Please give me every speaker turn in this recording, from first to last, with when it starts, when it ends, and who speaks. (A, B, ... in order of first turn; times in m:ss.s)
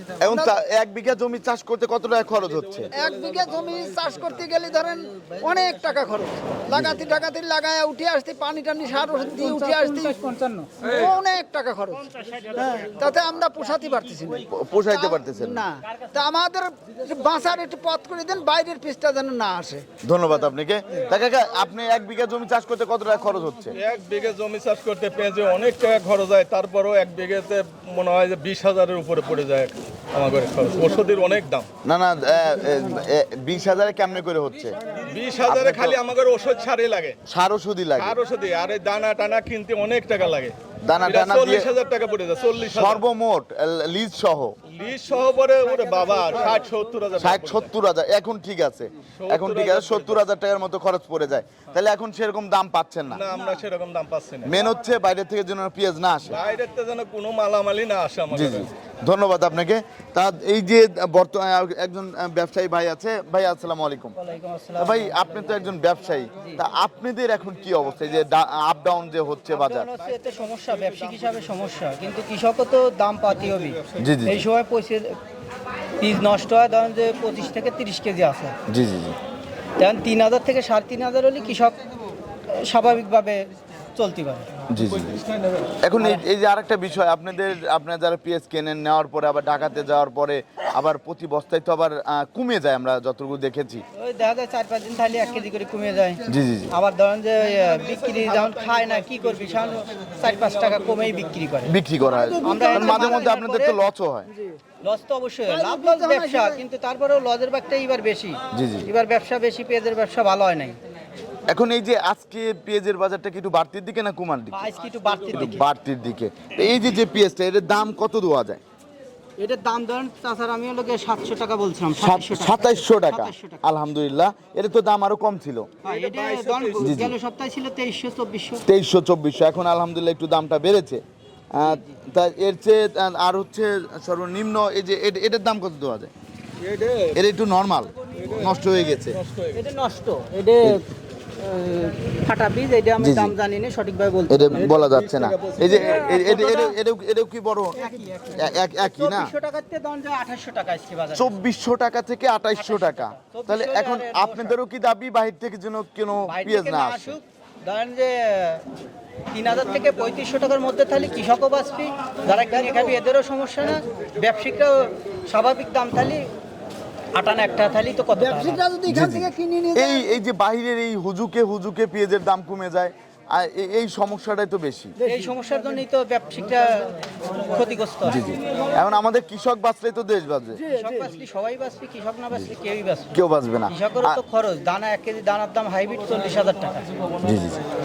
0:00.2-0:02.9 A
0:02.9-0:19.8 B
0:06.7-0:07.1 A
0:09.4-0:10.6 C
0:14.5-0:15.7 A
0:20.0-0:23.8 A
0:23.7-0:31.7 D
0:31.8-0:34.8 A
0:35.0-0:37.2 D
0:35.4-0:36.0 A
0:37.3-0:38.2 A
0:38.0-0:43.0 D
0:40.8-0:41.7 A
0:42.7-0:44.6 A
0:44.7-0:47.7 D
0:47.2-0:53.3 A
0:49.2-0:50.2 D
0:53.1-0:54.6 D
0:54.5-0:56.4 A
0:56.3-0:58.7 D
0:58.3-1:04.2 A
1:04.2-1:05.8 C
1:04.8-1:09.9 A
1:09.5-1:15.2 C
1:14.0-1:14.5 A
1:16.0-1:18.6 C
1:18.7-1:19.2 A
1:19.8-1:21.8 C
1:22.5-1:24.5 C
1:24.7-1:25.2 A
1:25.8-1:33.8 A
1:34.0-1:41.8 C
1:36.3-1:36.7 A
1:41.7-1:44.3 A
1:42.1-1:43.2 B
1:42.4-1:43.9 C
1:44.3-1:44.6 B
1:44.8-1:50.8 C
1:45.5-1:46.6 B
1:48.5-1:48.9 A
1:51.5-1:54.7 A
1:54.5-1:55.6 C
1:55.3-1:58.6 A
1:59.4-2:03.6 C
2:02.0-2:05.7 A
2:05.8-2:08.6 C
2:06.8-2:07.1 A
2:08.7-2:11.0 A
2:11.5-2:16.1 A
2:11.6-2:11.9 C
2:16.7-2:17.1 D
2:17.1-2:19.2 A
2:19.5-2:20.8 C
2:21.4-2:24.7 C
2:23.0-2:23.3 A
2:24.3-2:29.3 A
2:25.1-2:26.6 D
2:27.8-2:31.4 C
2:31.2-2:37.2 A
2:32.6-2:34.6 C
2:36.3-2:38.6 C
2:39.3-2:46.3 C
2:47.1-2:48.6 C
2:48.2-2:50.1 B
2:48.9-2:55.0 A
2:55.0-2:58.3 C
2:58.0-3:00.6 A
3:00.7-3:03.1 C
3:03.1-3:04.2 A
3:03.7-3:06.9 C
3:07.2-3:07.6 A